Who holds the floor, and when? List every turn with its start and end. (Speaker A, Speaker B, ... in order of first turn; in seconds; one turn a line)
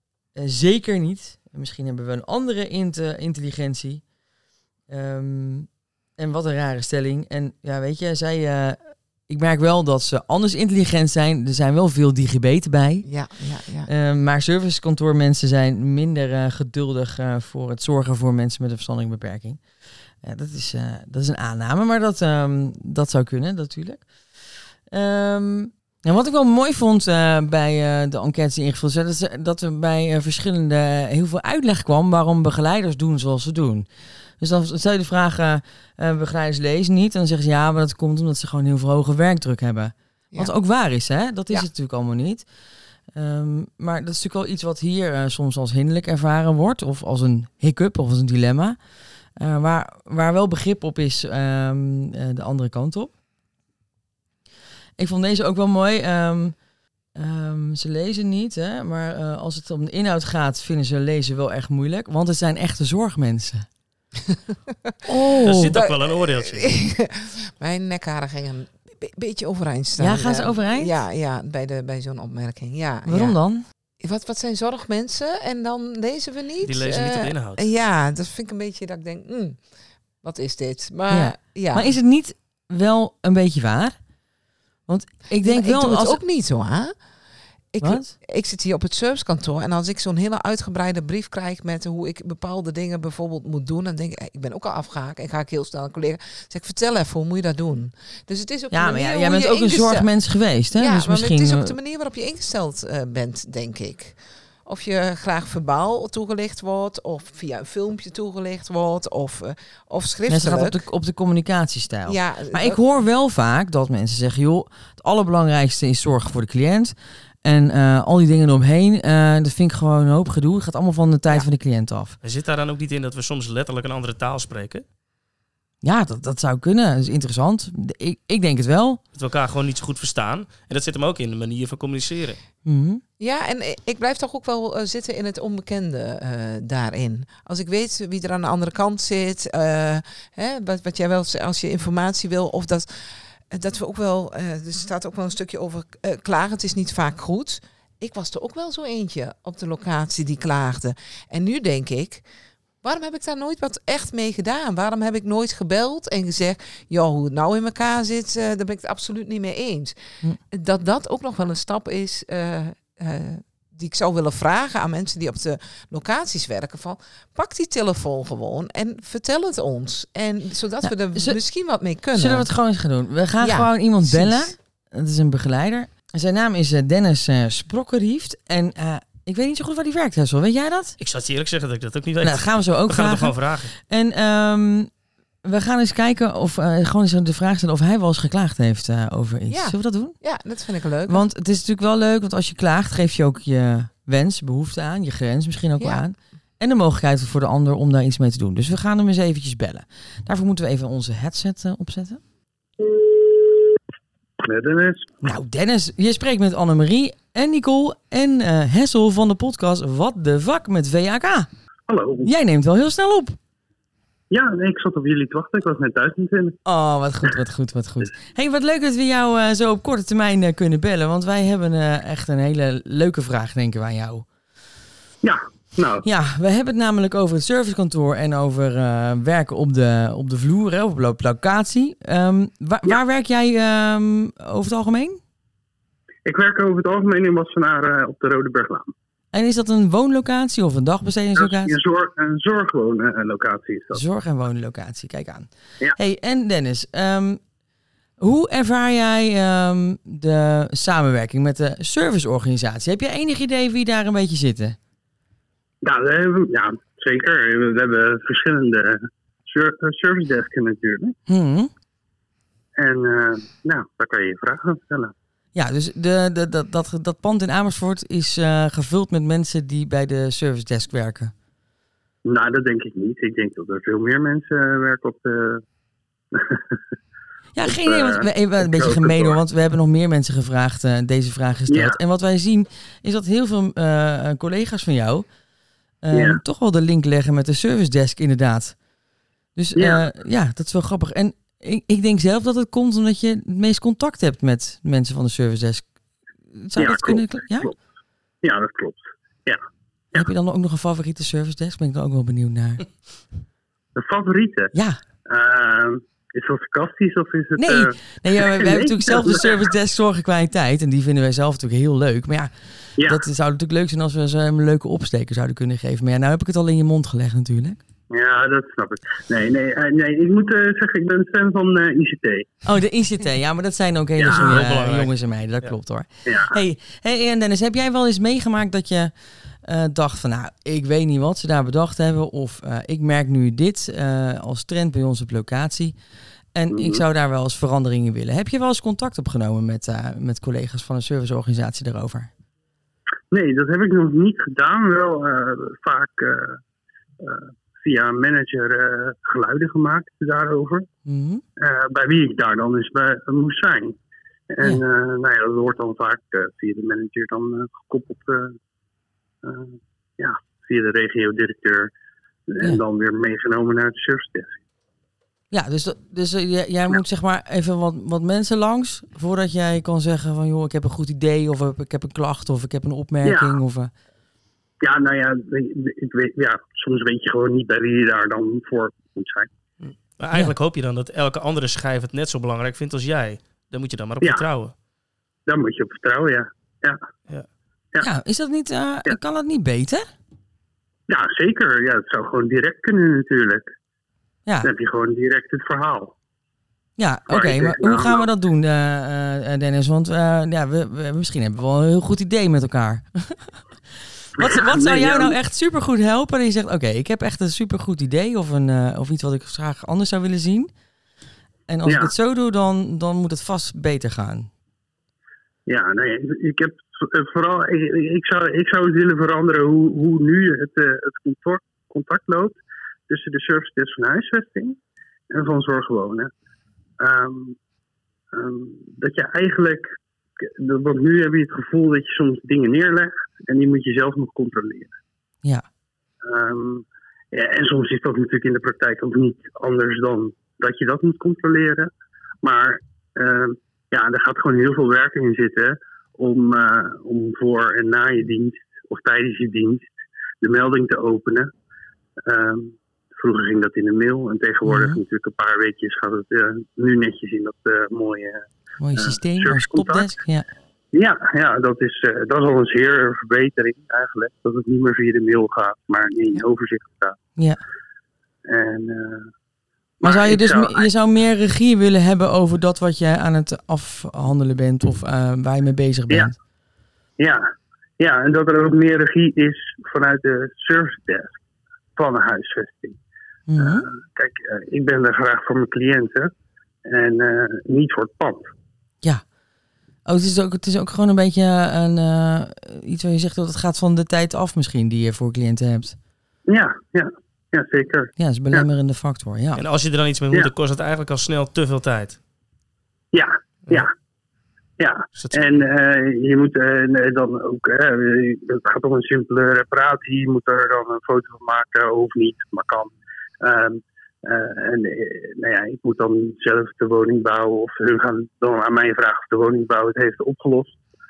Speaker A: 0.3-4.0
Speaker A: 4.9-13.1
Speaker B: 13.1-13.9
Speaker A: 13.8-19.6
Speaker A: 20.2-24.1
Speaker A: 24.9-33.9
Speaker A: 34.4-42.5
Speaker A: 43.1-48.8
Speaker A: 49.4-53.1
Speaker A: 55.0-56.6
Speaker A: 57.1-63.7
Speaker B: 65.1-73.3
Speaker A: 65.1-65.7
Speaker C: 65.4-66.8
Speaker A: 70.0-71.0
Speaker A: 73.0-73.6
Speaker B: 74.0-79.6
Speaker C: 76.6-77.7
Speaker B: 80.2-81.9
Speaker A: 81.1-84.0
Speaker A: 84.9-86.2
Speaker B: 85.4-86.9
Speaker B: 87.7-100.1
Speaker A: 87.8-88.1
Speaker A: 98.7-101.7
Speaker B: 100.8-110.8
Speaker A: 110.3-122.2
Speaker B: 112.0-112.8
Speaker C: 122.2-124.8
Speaker A: 125.8-129.0
Speaker C: 129.1-132.4
Speaker A: 132.7-133.0
Speaker B: 133.2-152.2
Speaker B: 152.8-160.0
Speaker B: 160.5-172.5
Speaker A: 170.8-171.4
Speaker A: 172.1-181.0
Speaker B: 173.4-174.5
Speaker C: 181.0-183.7
Speaker A: 182.2-184.9
Speaker A: 185.4-190.2
Speaker B: 189.5-191.2
Speaker A: 191.1-202.2
Speaker D: 203.2-203.4
Speaker D: 204.4-205.1
Speaker A: 205.2-211.5
Speaker D: 211.9-212.3
Speaker A: 212.2-213.4
Speaker D: 214.3-216.6
Speaker A: 216.7-224.2
Speaker D: 225.2-226.0
Speaker A: 226.0-235.2
Speaker D: 236.2-238.9
Speaker A: 239.3-241.8
Speaker D: 241.4-244.0
Speaker A: 243.9-247.4
Speaker A: 248.2-254.8
Speaker D: 255.8-261.1
Speaker A: 261.3-261.7
Speaker D: 262.8-265.1
Speaker A: 265.5-271.3
Speaker D: 272.2-275.6
Speaker D: 276.3-276.8
Speaker A: 277.6-285.2
Speaker D: 277.6-279.4
Speaker D: 281.7-282.0
Speaker A: 286.0-288.8
Speaker D: 286.1-286.4
Speaker A: 289.6-295.9
Speaker D: 289.8-290.0
Speaker A: 296.7-297.7
Speaker D: 296.8-297.8
Speaker D: 298.4-299.6
Speaker A: 300.1-302.9
Speaker D: 303.9-304.7
Speaker A: 304.7-305.0
Speaker D: 305.2-309.6
Speaker A: 307.6-312.5
Speaker D: 313.0-313.2
Speaker A: 313.0-317.8
Speaker D: 318.1-322.5
Speaker A: 322.6-329.1
Speaker D: 324.2-324.6
Speaker C: 324.2-325.7
Speaker D: 326.2-326.5
Speaker A: 329.6-335.9
Speaker A: 336.5-342.3
Speaker D: 336.7-337.0
Speaker D: 343.3-346.6
Speaker D: 347.2-350.9
Speaker A: 351.1-351.4
Speaker D: 351.6-354.0
Speaker D: 354.5-358.6
Speaker D: 359.4-361.9
Speaker D: 362.5-364.6
Speaker A: 365.5-373.9
Speaker D: 373.2-373.6
Speaker D: 374.8-379.5
Speaker C: 379.8-384.7
Speaker D: 385.5-387.0
Speaker A: 388.0-390.1
Speaker D: 391.1-393.7
Speaker D: 394.6-396.1
Speaker A: 397.0-403.6
Speaker D: 397.3-398.2
Speaker A: 404.4-410.7
Speaker D: 404.4-405.3
Speaker A: 411.7-414.5
Speaker D: 411.9-412.1
Speaker D: 415.7-424.8
Speaker D: 425.3-426.3
Speaker D: 427.0-427.6
Speaker D: 428.3-429.9
Speaker D: 430.4-434.9
Speaker D: 436.2-441.9
Speaker D: 442.4-449.9
Speaker D: 450.4-451.5
Speaker D: 452.2-460.1
Speaker A: 454.6-455.0
Speaker A: 458.8-460.5
Speaker D: 460.9-467.1
Speaker D: 468.4-469.3
Speaker A: 470.0-476.3
Speaker D: 470.0-470.9
Speaker D: 477.2-477.4
Speaker D: 478.0-481.4
Speaker D: 481.9-483.0
Speaker A: 483.5-483.9
Speaker D: 483.6-486.3
Speaker D: 486.9-488.5
Speaker A: 490.0-496.0
Speaker D: 496.5-498.1
Speaker A: 498.2-499.6
Speaker C: 499.6-502.2
Speaker D: 503.1-503.9
Speaker D: 504.8-520.8
Speaker C: 505.1-505.7